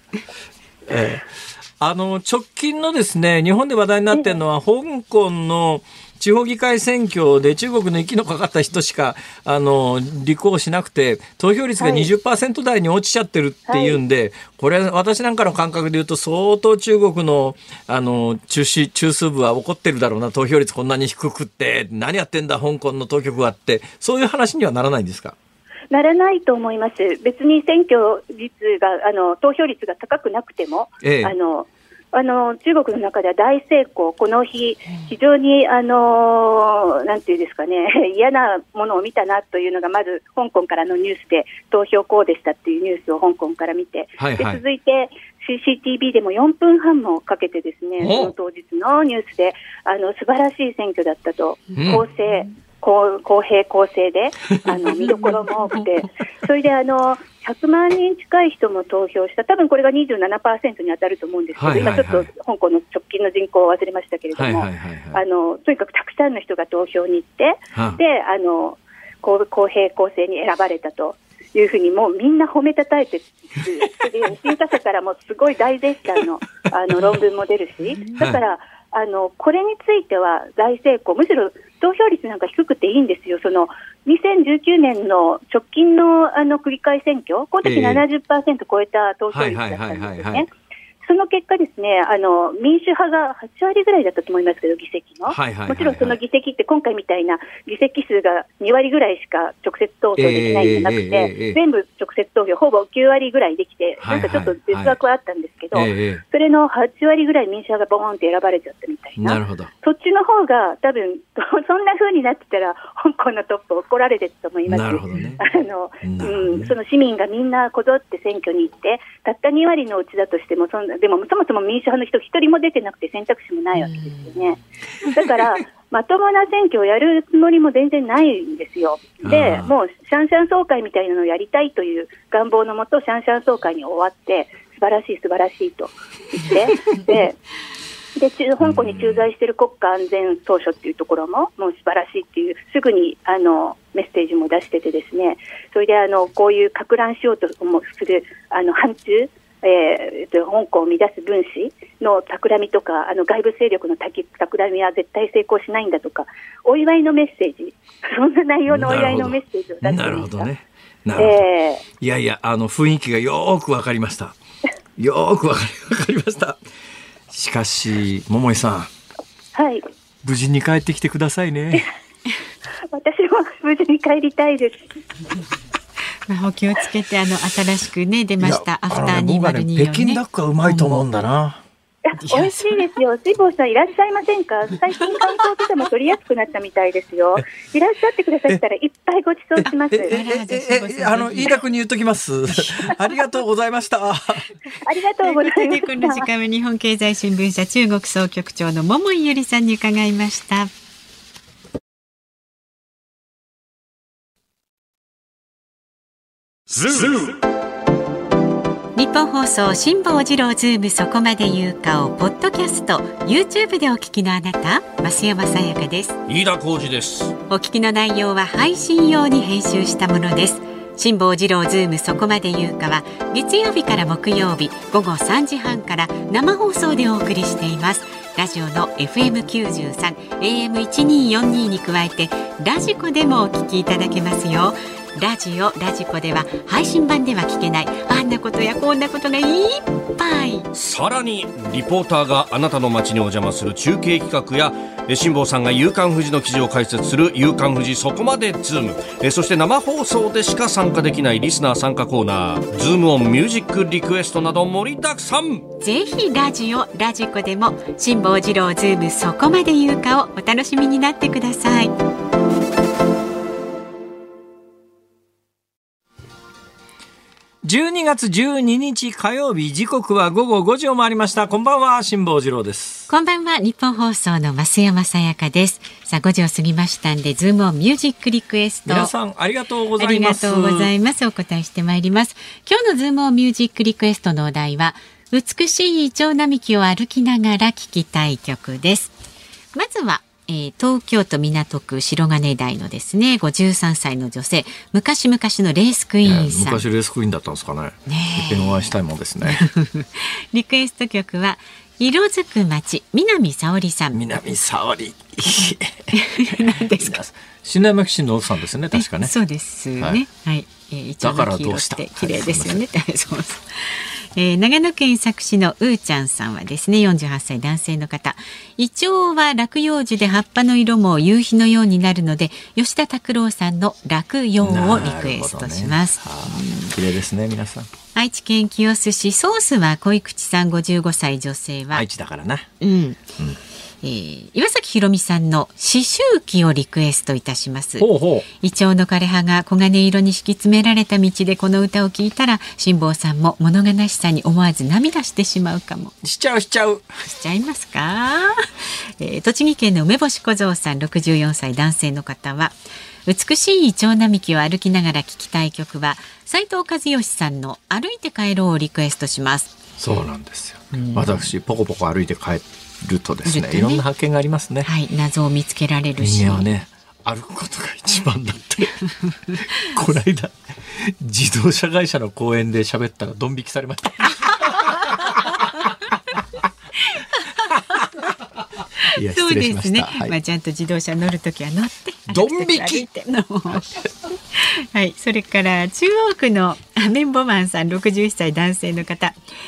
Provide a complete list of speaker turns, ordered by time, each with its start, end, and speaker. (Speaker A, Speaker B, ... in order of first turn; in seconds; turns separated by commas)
Speaker A: 0.9-1.3, Speaker A: 1.8-25.4, Speaker B: 11.8-12.1, Speaker B: 13.7-14.0, Speaker B: 25.9-90.5, Speaker A: 31.0-31.3, Speaker A: 44.2-44.6, Speaker A: 48.0-48.3, Speaker A: 51.8-52.0, Speaker A: 54.5-54.8, Speaker A: 61.6-62.3, Speaker A: 64.3-65.2, Speaker A: 67.7-68.0, Speaker A: 87.6-88.0, Speaker A: 89.3-90.5, Speaker B: 91.0-137.4, Speaker A: 95.3-96.2, Speaker A: 100.2-101.6, Speaker A: 104.0-105.0, Speaker A: 105.7-106.2, Speaker A: 109.2-109.7, Speaker A: 114.7-115.4, Speaker A: 116.0-116.7, Speaker A: 125.0-125.3, Speaker A: 129.2-129.7, Speaker B: 138.2-160.5, Speaker A: 138.6-139.2, Speaker A: 158.7-161.4, Speaker B: 161.2-161.8, Speaker A: 162.0-164.4, Speaker A: 165.0-166.6, Speaker A: 167.3-168.9, Speaker B: 169.6-169.9, Speaker A: 170.2-171.9, Speaker B: 172.9-174.8, Speaker C: 176.3-181.0, Speaker A: 178.4-181.6, Speaker B: 182.1-190.2, Speaker C: 182.2-182.8, Speaker A: 189.6-194.5, Speaker C: 189.6-191.6, Speaker B: 194.8-196.3, Speaker C: 195.2-200.7, Speaker D: 206.7-207.3, Speaker C: 208.9-216.2, Speaker D: 216.3-217.3, Speaker C: 217.5-240.7, Speaker D: 240.7-255.7, Speaker C: 255.8-261.9, Speaker A: 267.6-273.1, Speaker C: 273.1-279.1, Speaker A: 278.9-280.9, Speaker C: 280.0-289.1, Speaker C: 289.7-296.8, Speaker A: 296.2-299.7, Speaker C: 298.1-298.9, Speaker C: 299.4-304.2, Speaker A: 304.1-309.3, Speaker C: 306.1-307.2, Speaker C: 308.9-326.9, Speaker A: 311.2-312.8, Speaker A: 324.6-327.9, Speaker C: 328.1-332.1, Speaker A: 331.9-332.7, Speaker C: 332.8-333.3, Speaker C: 334.0-338.1, Speaker A: 338.0-338.4, Speaker C: 338.6-346.1, Speaker A: 346.2-347.1, Speaker C: 347.2-348.7, Speaker C: 349.2-352.8, Speaker C: 353.3-359.7, Speaker A: 360.0-364.9, Speaker C: 360.9-361.4, Speaker C: 363.4-364.1, Speaker C: 364.8-366.7, Speaker A: 366.2-376.1, Speaker C: 377.1-377.9, Speaker A: 377.7-378.1, Speaker A: 379.0-380.3, Speaker C: 379.1-384.0, Speaker A: 382.3-383.1, Speaker C: 384.6-389.4